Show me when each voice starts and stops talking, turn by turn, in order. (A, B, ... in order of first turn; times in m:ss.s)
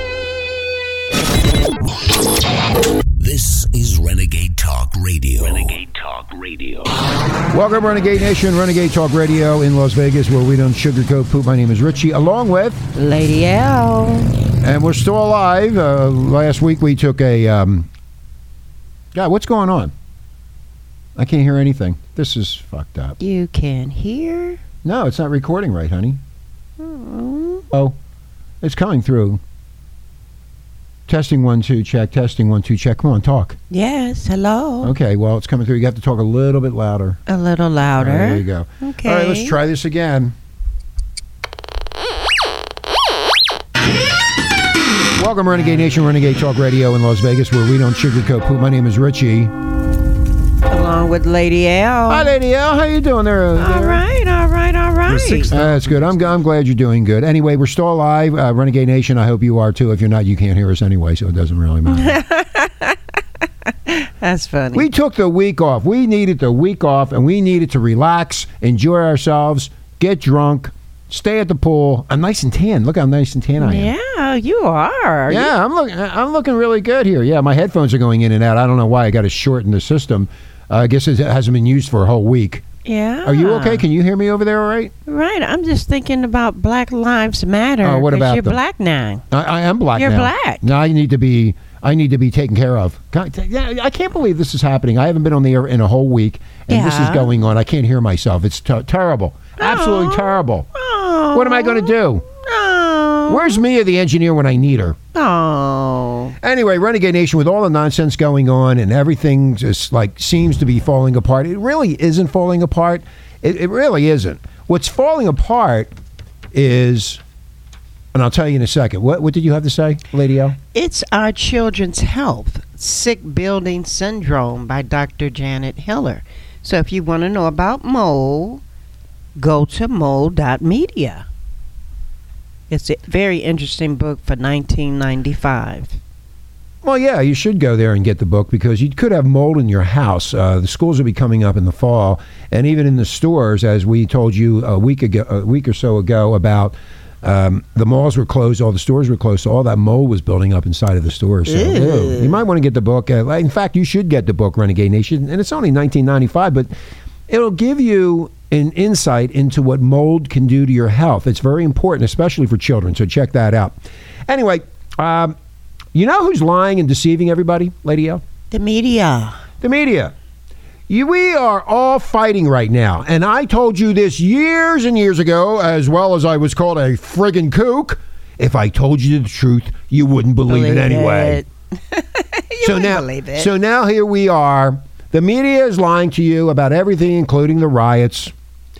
0:03.2-0:06.9 A
0:07.5-0:12.8 B
0:12.9-0:14.3 C
0:14.6-0:17.9 B
0:19.1-0:19.9 B
0:21.2-0:23.2 B
0:23.2-0:24.6 C
0:24.8-0:26.2 B
0:26.8-0:27.6 C
0:27.7-0:28.0 B
0:28.6-0:29.4 B
0:31.1-0:33.6 B
0:33.7-0:34.9 C
0:34.8-0:37.2 B
0:37.3-0:39.6 C
0:38.0-0:40.3 B
0:45.2-0:49.5 B
0:50.7-0:52.3 C
0:52.1-0:54.0 B
0:53.6-0:55.5 C
0:55.5-1:02.2 B
1:01.9-1:03.0 C
1:03.7-1:04.9 C
1:04.7-1:13.9 B
1:13.6-1:15.5 C
1:15.3-1:22.6 B
1:22.8-1:23.8 C
1:23.2-1:24.9 B
1:25.0-1:29.2 C
1:27.8-1:28.6 B
1:29.3-1:40.7 B
1:29.9-1:30.7 C
1:36.7-1:37.3 C
1:39.6-1:43.6 C
1:41.3-1:42.2 B
1:43.3-1:45.0 B
1:45.1-1:46.4 C
1:46.4-1:55.9 B
1:56.5-1:57.2 B
1:58.1-2:00.6 B
2:00.7-2:08.6 C
2:09.4-2:11.2 C
2:12.7-2:16.0 C
2:16.8-2:36.7 B
2:31.4-2:32.4 C
2:37.3-2:45.3 B
2:45.9-2:48.2 B
2:48.5-2:49.4 C
2:49.6-2:50.1 B
2:50.9-3:01.4 B
3:00.5-3:03.5 C
3:02.6-3:08.3 B